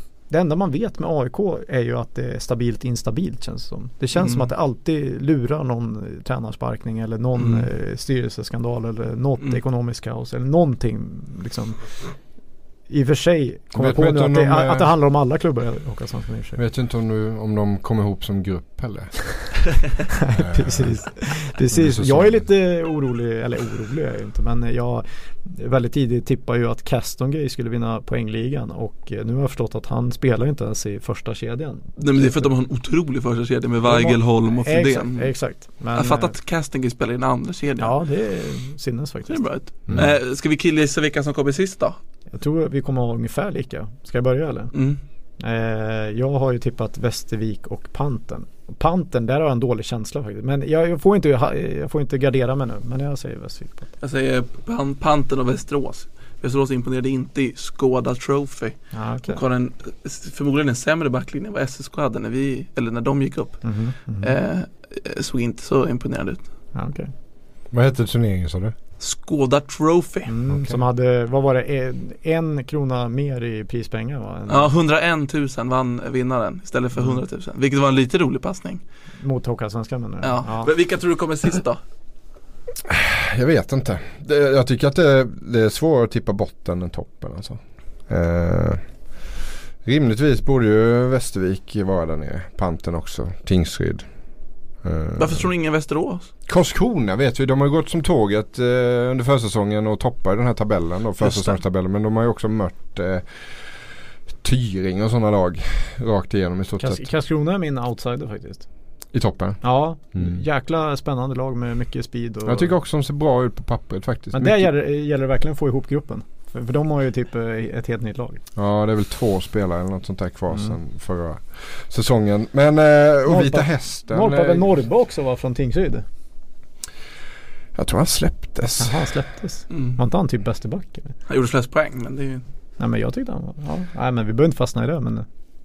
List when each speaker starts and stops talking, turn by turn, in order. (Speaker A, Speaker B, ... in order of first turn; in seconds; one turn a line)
Speaker A: 0.3-11.9
Speaker B: 4.2-4.5
Speaker B: 7.4-7.7
Speaker A: 12.9-16.6
Speaker C: 13.7-14.9
Speaker C: 16.6-19.4
Speaker A: 20.2-32.5
Speaker C: 20.3-22.4
Speaker B: 32.0-37.9
Speaker A: 33.8-36.3
Speaker A: 37.8-39.5
Speaker B: 39.3-42.0
Speaker A: 42.3-44.7
Speaker B: 44.7-45.0
Speaker A: 45.4-53.9
Speaker B: 54.0-66.4
Speaker A: 58.9-59.4
Speaker A: 63.6-64.3
Speaker A: 66.7-67.1
Speaker C: 67.7-68.7
Speaker B: 69.0-70.3
Speaker A: 70.3-74.7
Speaker C: 70.5-70.8
Speaker B: 74.5-78.8
Speaker A: 79.2-80.7
Speaker B: 80.2-81.8
Speaker C: 82.9-88.9
Speaker C: 89.8-94.1
Speaker C: 94.8-95.5
Speaker B: 95.2-96.3
Speaker C: 96.5-107.1
Speaker A: 106.8-108.7
Speaker C: 109.1-110.4
Speaker A: 109.6-112.7
Speaker C: 112.4-114.7
Speaker A: 114.3-118.4
Speaker C: 118.5-124.8
Speaker A: 120.5-120.8
Speaker A: 123.2-126.0
Speaker C: 127.7-129.2
Speaker A: 128.8-131.1
Speaker B: 129.7-130.0
Speaker B: 131.3-132.4
Speaker A: 132.8-135.2